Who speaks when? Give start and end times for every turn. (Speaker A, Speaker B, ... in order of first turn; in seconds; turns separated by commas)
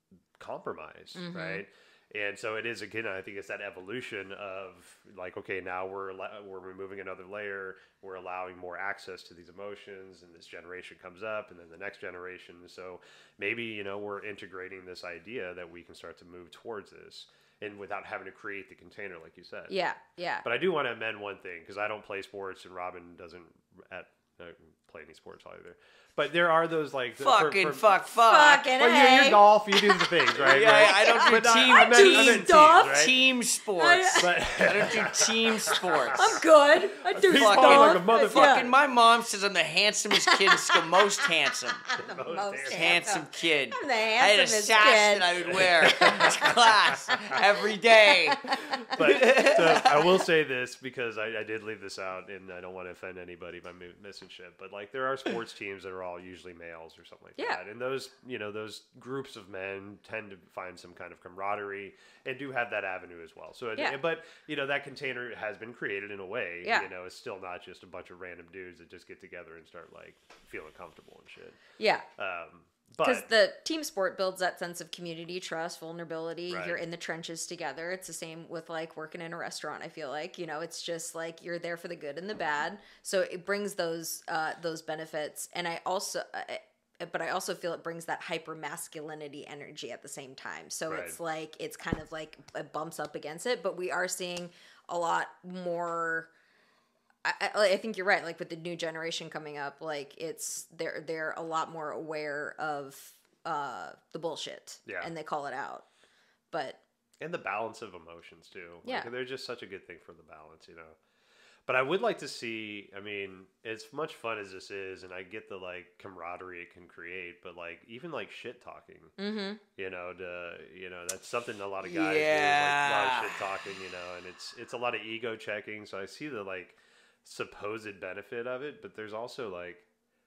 Speaker A: 0.4-19.8, Speaker B: 1.1-1.6, Speaker B: 19.7-20.4, Speaker A: 20.4-28.0, Speaker C: 27.2-28.7, Speaker B: 28.2-33.2, Speaker A: 28.7-33.2, Speaker C: 30.4-36.4, Speaker B: 33.8-34.9, Speaker A: 34.2-36.4, Speaker B: 36.1-38.7, Speaker A: 37.0-38.8, Speaker C: 37.3-41.9, Speaker B: 40.1-40.9, Speaker B: 41.9-46.5, Speaker A: 42.0-43.2, Speaker C: 42.7-50.1, Speaker A: 45.5-47.4, Speaker B: 47.7-49.5, Speaker A: 48.8-71.6, Speaker B: 66.6-66.9, Speaker B: 71.8-72.0, Speaker A: 72.2-73.3, Speaker B: 73.0-96.3, Speaker A: 76.5-76.8, Speaker A: 90.9-91.2, Speaker B: 97.2-105.9, Speaker A: 104.9-105.1, Speaker B: 106.5-106.8, Speaker A: 107.2-111.0, Speaker B: 108.8-109.1, Speaker A: 111.7-119.2, Speaker B: 119.2-119.6, Speaker A: 119.8-129.9, Speaker C: 121.8-123.5